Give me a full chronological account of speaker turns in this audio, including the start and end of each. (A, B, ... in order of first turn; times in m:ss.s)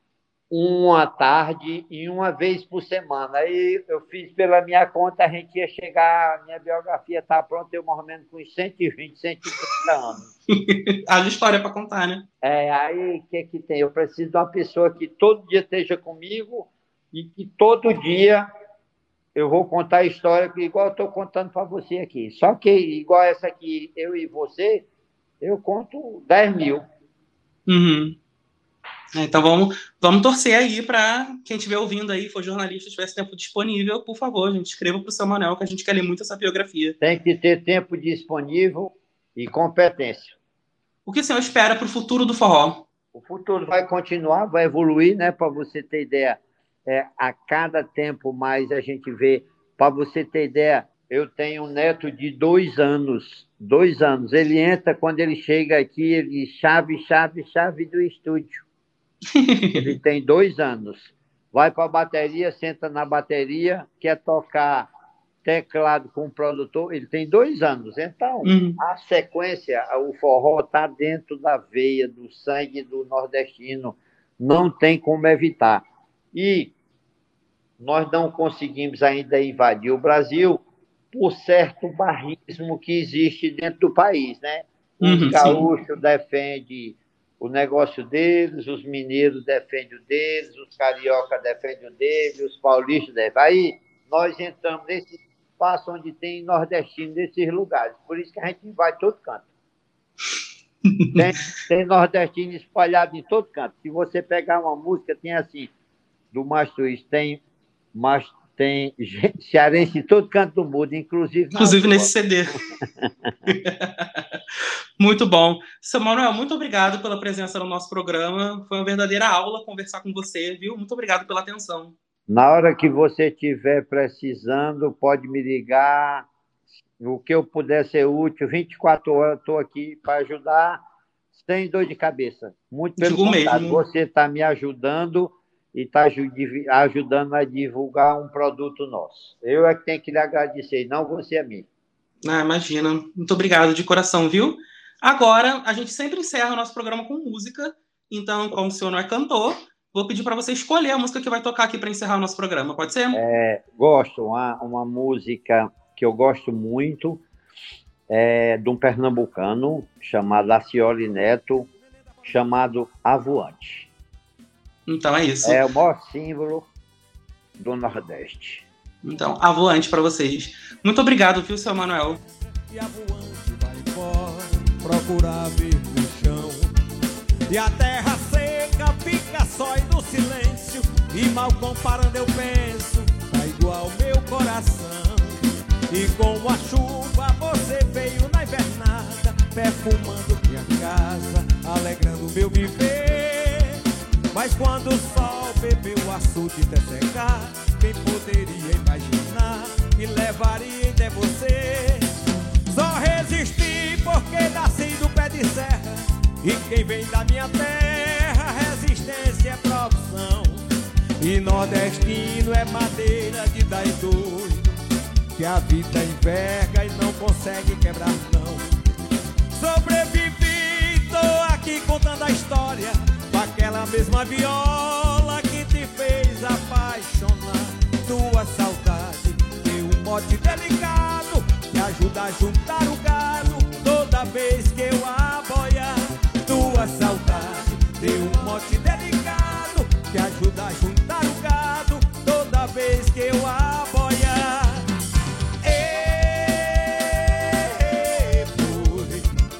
0:00.5-0:10.3 A
0:10.5-0:12.2 B
0:12.4-0:18.4 A
0:19.3-0:24.9 A
0:25.4-0:26.8 A
0:27.7-0:28.2 B
0:29.1-0:37.0 B
0:37.0-0:40.4 A
0:41.0-0:42.8 B
0:43.1-0:58.6 A
0:59.4-1:00.0 B
0:59.7-1:04.9 A
1:05.4-1:16.7 A
1:08.4-1:08.8 B
1:17.8-1:39.4 A
1:25.0-1:25.7 B
1:40.8-1:41.2 B
1:41.1-1:45.7 A
1:46.3-1:47.4 A
1:47.9-1:52.1 A
1:51.5-1:52.6 B
1:52.8-1:53.3 A
1:53.5-1:54.4 B
1:55.0-2:01.9 B
2:02.3-2:06.3 A
2:07.0-2:10.8 A
2:11.3-2:21.6 A
2:13.0-2:13.8 B
2:22.2-2:33.2 B
2:33.1-2:37.2 A
2:38.1-2:41.7 A
2:42.2-2:43.9 A
2:44.9-2:45.6 B
2:45.4-2:46.7 A
2:47.6-2:48.6 A
2:49.0-2:52.2 B
2:52.7-2:56.7 C
2:57.5-3:22.1 C
3:22.6-3:30.6 C
3:31.2-3:34.8 C
3:35.3-3:38.8 C
3:39.5-4:04.9 C
4:05.6-4:09.3 C